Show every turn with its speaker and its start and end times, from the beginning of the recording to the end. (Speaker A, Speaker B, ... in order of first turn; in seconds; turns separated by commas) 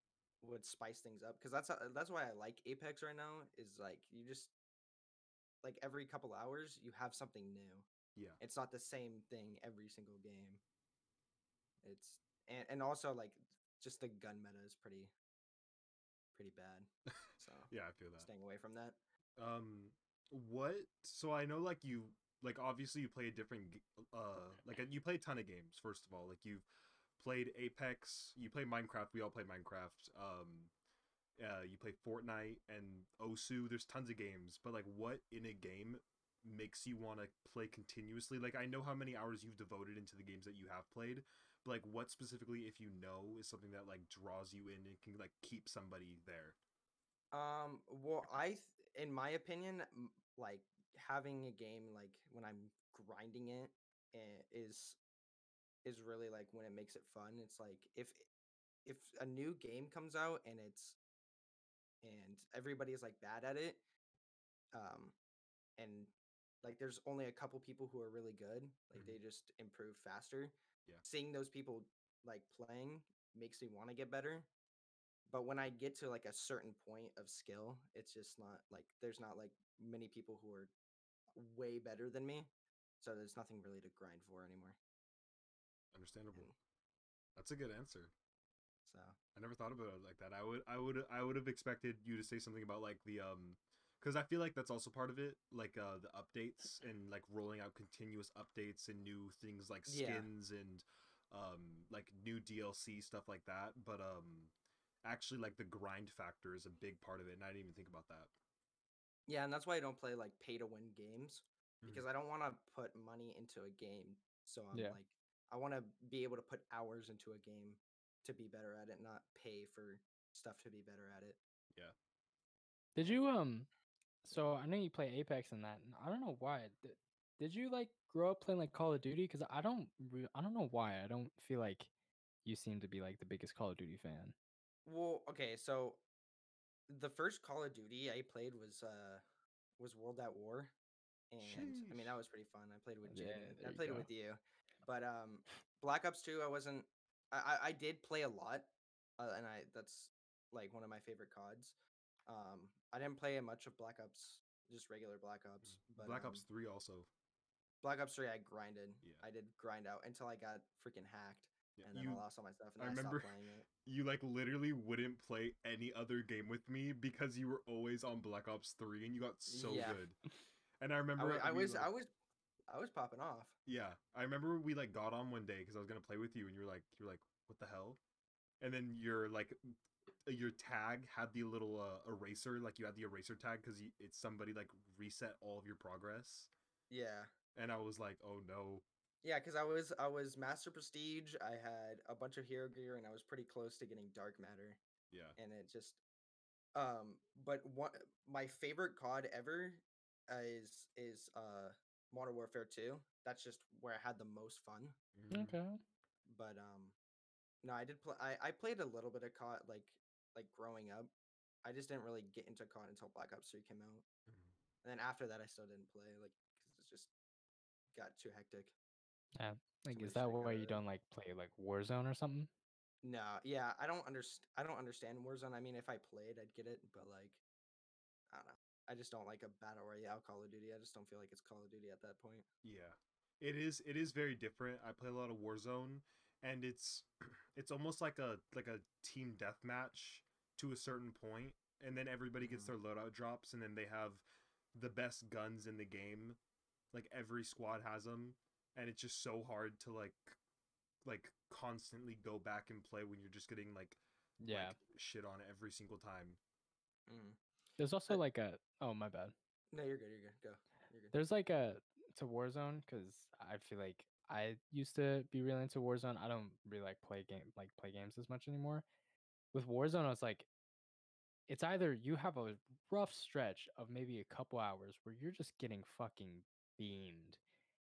Speaker A: 0.4-4.5, Speaker A: 5.6-7.9, Speaker A: 8.4-10.6, Speaker A: 11.8-15.1, Speaker A: 16.4-19.0, Speaker B: 17.7-18.3, Speaker B: 19.4-26.7, Speaker B: 27.2-30.7, Speaker B: 31.4-46.6, Speaker A: 47.3-55.0, Speaker A: 55.8-58.3, Speaker A: 58.9-61.0, Speaker A: 62.0-63.8, Speaker A: 64.7-65.2, Speaker A: 65.8-74.5, Speaker A: 75.3-80.7, Speaker A: 81.3-84.8, Speaker B: 85.9-86.5, Speaker B: 87.4-88.1, Speaker A: 88.9-89.2, Speaker B: 89.3-108.3, Speaker A: 99.9-100.3, Speaker A: 109.3-121.4, Speaker C: 114.7-115.0, Speaker C: 123.0-123.7, Speaker C: 124.2-131.9, Speaker C: 132.4-134.3, Speaker A: 134.8-136.0, Speaker A: 136.9-139.2, Speaker A: 139.8-140.7, Speaker A: 141.3-151.8, Speaker B: 141.4-142.2, Speaker C: 143.1-144.1, Speaker A: 152.3-156.4, Speaker B: 155.6-157.1, Speaker A: 157.8-163.7, Speaker B: 161.8-162.2, Speaker B: 162.8-170.2, Speaker A: 169.5-170.0, Speaker B: 170.8-171.9, Speaker A: 171.2-172.1, Speaker A: 172.7-173.5, Speaker B: 173.7-178.0, Speaker B: 178.6-179.6, Speaker B: 180.3-186.5, Speaker A: 186.9-187.3, Speaker B: 187.6-188.9, Speaker A: 189.2-194.8, Speaker B: 195.1-195.4, Speaker A: 195.4-196.0, Speaker A: 196.8-205.0, Speaker B: 205.2-205.6, Speaker C: 205.3-205.8, Speaker A: 206.3-207.0, Speaker A: 207.6-211.1, Speaker A: 211.6-214.1, Speaker B: 214.3-214.5, Speaker A: 214.8-217.1, Speaker A: 217.9-218.7, Speaker C: 219.4-222.5, Speaker A: 219.9-220.8, Speaker A: 223.0-227.4, Speaker A: 228.3-232.5, Speaker B: 232.6-246.4, Speaker A: 242.4-242.7, Speaker B: 246.9-250.4, Speaker B: 251.0-256.4, Speaker C: 254.4-254.8, Speaker A: 257.1-257.4, Speaker C: 257.8-259.4, Speaker A: 259.7-261.1, Speaker C: 261.1-268.8, Speaker C: 269.5-270.5, Speaker C: 271.5-277.4